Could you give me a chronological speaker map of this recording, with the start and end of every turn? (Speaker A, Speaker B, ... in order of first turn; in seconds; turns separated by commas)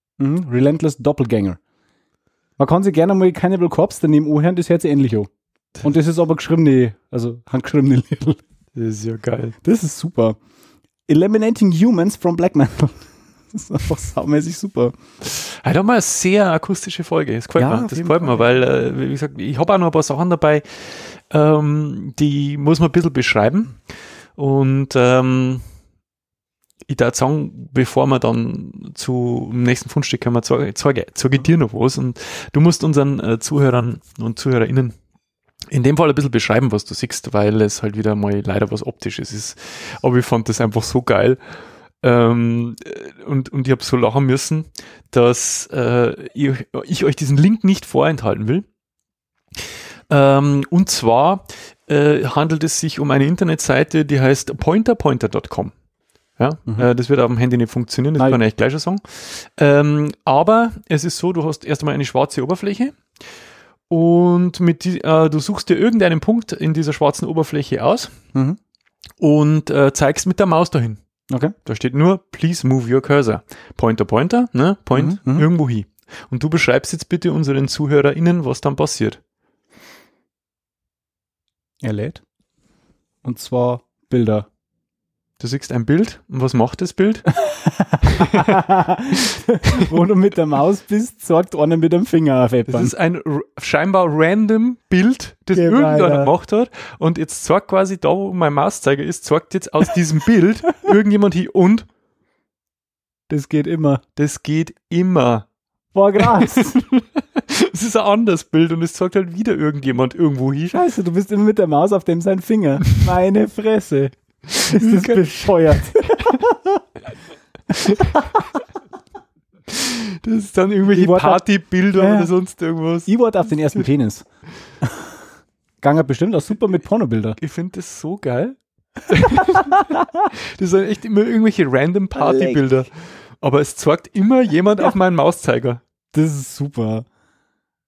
Speaker A: 0.2-1.6, Speaker A: 2.6-5.3, Speaker A: 5.8-8.4, Speaker B: 8.8-9.6, Speaker A: 9.6-10.4, Speaker A: 11.1-14.9, Speaker B: 15.2-23.8, Speaker A: 17.6-18.6, Speaker B: 24.4-25.6, Speaker B: 26.9-35.0, Speaker B: 35.7-41.4, Speaker B: 42.0-48.7, Speaker B: 50.1-55.7, Speaker B: 56.4-63.0, Speaker B: 63.9-68.1, Speaker A: 68.3-68.6, Speaker B: 69.2-71.0, Speaker A: 71.3-71.5, Speaker B: 71.7-79.2, Speaker A: 74.9-75.5, Speaker A: 81.8-82.2, Speaker A: 83.2-84.5, Speaker B: 85.4-87.3, Speaker A: 87.4-92.9, Speaker B: 88.1-88.6, Speaker B: 92.7-101.9, Speaker A: 95.5-96.3, Speaker A: 103.3-104.0, Speaker B: 104.2-105.5, Speaker A: 105.9-106.8, Speaker B: 106.8-110.8, Speaker A: 110.7-114.1, Speaker B: 114.5-115.3, Speaker A: 114.7-116.8, Speaker B: 117.8-118.2, Speaker A: 117.9-118.4, Speaker B: 119.7-123.1, Speaker A: 120.9-122.3, Speaker A: 123.1-124.2, Speaker A: 124.8-125.1, Speaker A: 125.8-127.4, Speaker B: 127.4-135.8, Speaker A: 129.4-130.1, Speaker A: 132.2-132.7, Speaker A: 136.1-137.1